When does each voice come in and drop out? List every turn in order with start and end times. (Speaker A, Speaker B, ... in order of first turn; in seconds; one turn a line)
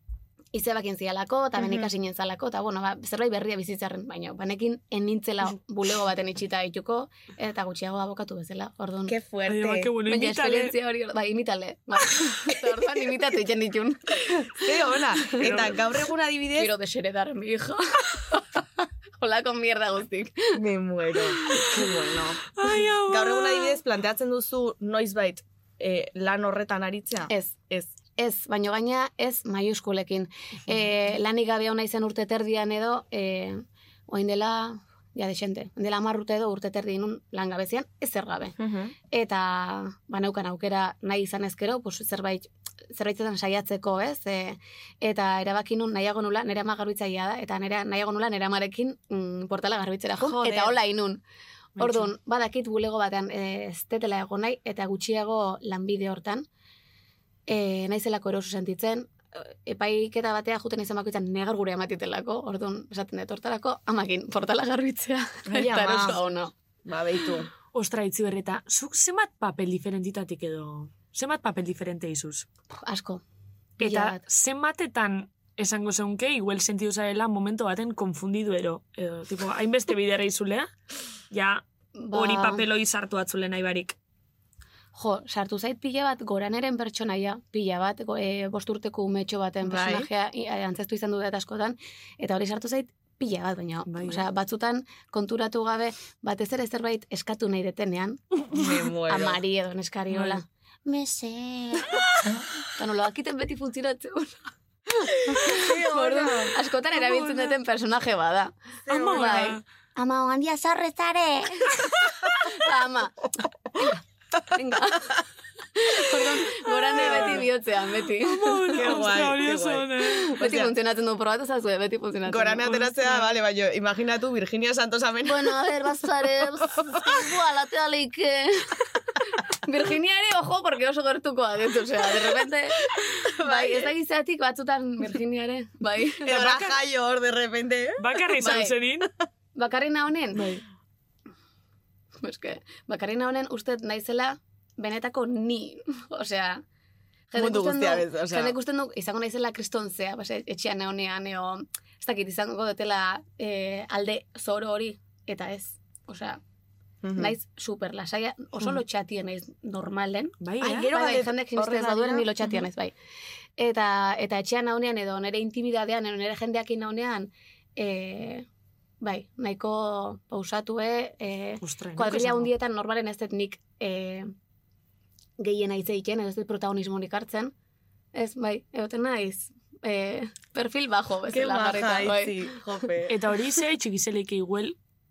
Speaker A: 0.5-9.2
Speaker B: 1.6-1.9
Speaker B: 9.1-9.9
Speaker C: 9.4-10.7
Speaker A: 10.0-14.7
Speaker B: 14.5-16.7
Speaker A: 15.2-15.7
Speaker C: 15.4-15.7
Speaker A: 16.6-20.6
Speaker B: 20.5-28.0
Speaker C: 21.4-21.7
Speaker C: 22.5-23.8
Speaker A: 27.3-27.6
Speaker A: 28.1-38.5
Speaker B: 38.6-38.9
Speaker A: 39.1-51.2
Speaker C: 50.2-50.8
Speaker C: 51.8-52.1
Speaker A: 51.8-56.5
Speaker A: 57.5-66.5
Speaker B: 65.5-66.2
Speaker B: 66.8-67.5
Speaker C: 67.7-72.5
Speaker A: 72.8-73.2
Speaker A: 73.8-74.2
Speaker C: 73.8-80.7
Speaker C: 81.3-84.0
Speaker A: 81.9-82.7
Speaker A: 84.9-108.5
Speaker B: 89.6-90.1
Speaker C: 93.9-94.2
Speaker B: 98.5-99.4
Speaker C: 100.1-100.4
Speaker B: 105.3-106.5
Speaker C: 106.9-107.6
Speaker B: 108.9-109.6
Speaker C: 108.9-109.6
Speaker A: 109.1-119.1
Speaker C: 116.9-117.4
Speaker B: 116.9-117.4
Speaker C: 118.2-120.3
Speaker B: 118.7-120.7
Speaker A: 120.3-122.8
Speaker B: 122.3-125.6
Speaker C: 122.6-123.3
Speaker A: 125.2-128.9
Speaker A: 129.6-136.5
Speaker B: 133.2-133.9
Speaker B: 136.2-138.6
Speaker C: 136.3-136.7
Speaker C: 138.0-139.1
Speaker A: 138.4-138.7
Speaker A: 139.5-140.5
Speaker C: 140.3-140.6
Speaker A: 142.2-146.6
Speaker A: 147.3-156.4
Speaker B: 147.3-148.5
Speaker B: 157.0-157.3
Speaker A: 157.2-162.9
Speaker C: 160.4-160.9
Speaker B: 160.6-162.3
Speaker A: 163.6-168.4
Speaker A: 169.0-174.3
Speaker C: 171.6-172.5
Speaker A: 175.4-177.5
Speaker A: 178.1-182.6
Speaker B: 181.3-183.1
Speaker C: 183.1-184.8